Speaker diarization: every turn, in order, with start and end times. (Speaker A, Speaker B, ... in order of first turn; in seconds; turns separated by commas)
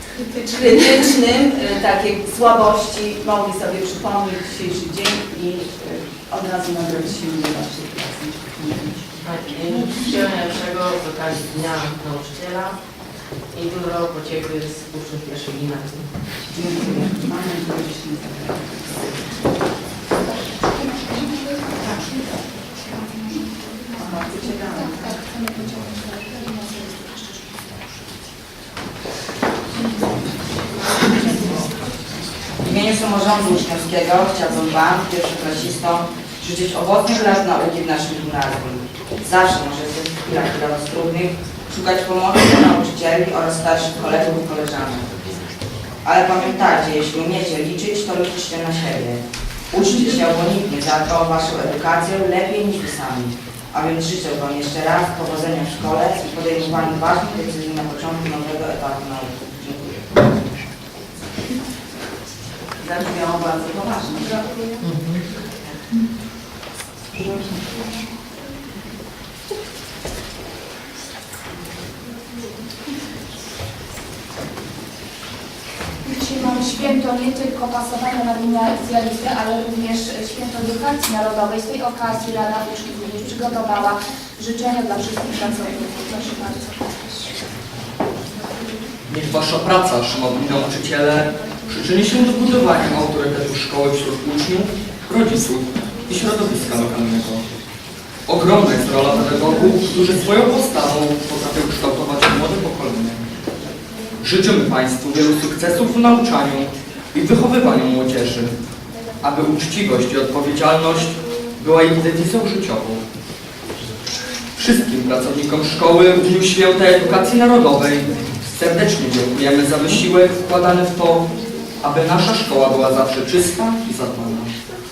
Speaker A: 0.2-9.1, Speaker B: 9.2-16.1, Speaker A: 16.5-19.2, Speaker A: 23.9-25.1, Speaker C: 24.8-27.8, Speaker D: 32.6-45.2, Speaker D: 46.0-60.4, Speaker D: 62.8-64.5, Speaker B: 64.8-65.2, Speaker C: 76.1-87.3, Speaker E: 89.1-97.4, Speaker E: 98.3-103.2, Speaker E: 104.2-108.5, Speaker E: 109.2-113.0, Speaker E: 114.6-121.3, Speaker E: 121.8-124.5